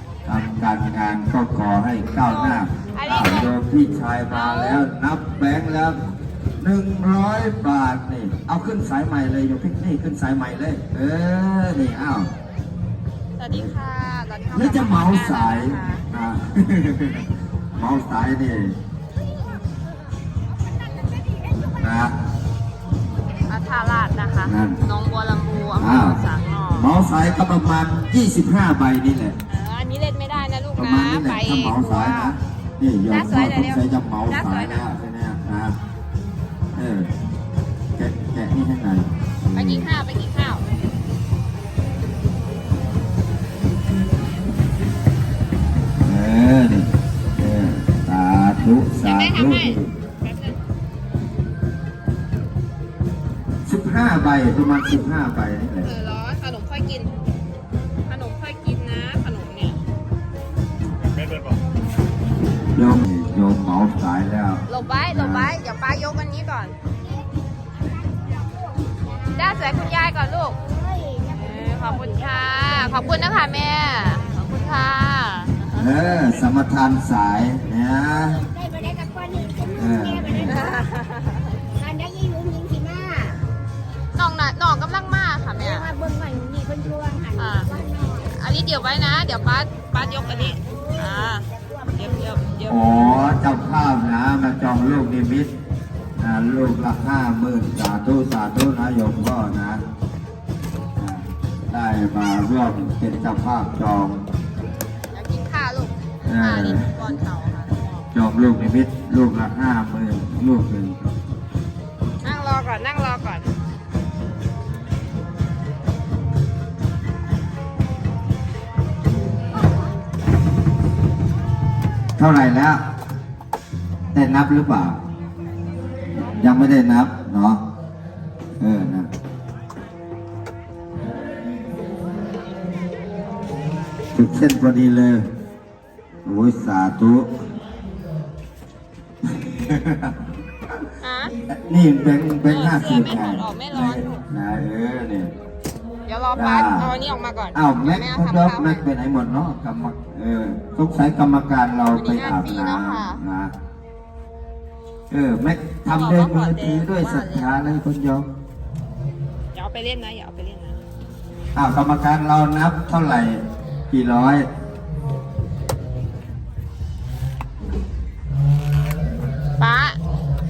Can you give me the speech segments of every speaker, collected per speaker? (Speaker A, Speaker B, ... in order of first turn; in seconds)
Speaker A: 0.2-6.0, 6.6-12.3, 14.5-18.8, 21.7-22.2, 24.4-24.8, 25.8-26.2, 26.7-29.4, 30.8-35.8, 36.7-37.1, 38.0-39.9, 46.0-49.9, 53.6-55.9, 62.8-65.5, 75.7-78.5, 79.7-80.6, 92.7-95.5, 96.2-99.8, 101.0-104.2, 106.2-106.9, 108.1-111.0, 122.2-122.8, 124.1-125.0, 126.1-127.6, 128.6-129.1, 134.1-135.3, 136.2-137.3, 139.3-140.2, 141.5-145.3, 146.3-146.9, 147.5-153.5, 155.1-158.3, 161.6-164.5
Speaker B: 2.2-3.5, 4.3-4.8, 13.4-16.1, 23.5-26.9, 29.5-32.4, 33.1-34.9, 39.5-40.6, 49.0-50.6, 55.8-57.1, 58.0-59.8, 64.7-66.8, 69.3-70.6, 71.3-76.4, 80.5-81.5, 84.2-85.9, 87.3-93.3, 105.1-108.1, 112.2-113.5, 141.0-141.3, 142.4-144.2, 146.1-148.8, 151.9-153.2, 155.9-157.7, 159.5-160.8, 169.6-170.0
Speaker C: 68.1-69.4, 70.6-72.9, 78.2-80.9, 81.8-83.4, 85.6-88.3, 91.7-92.1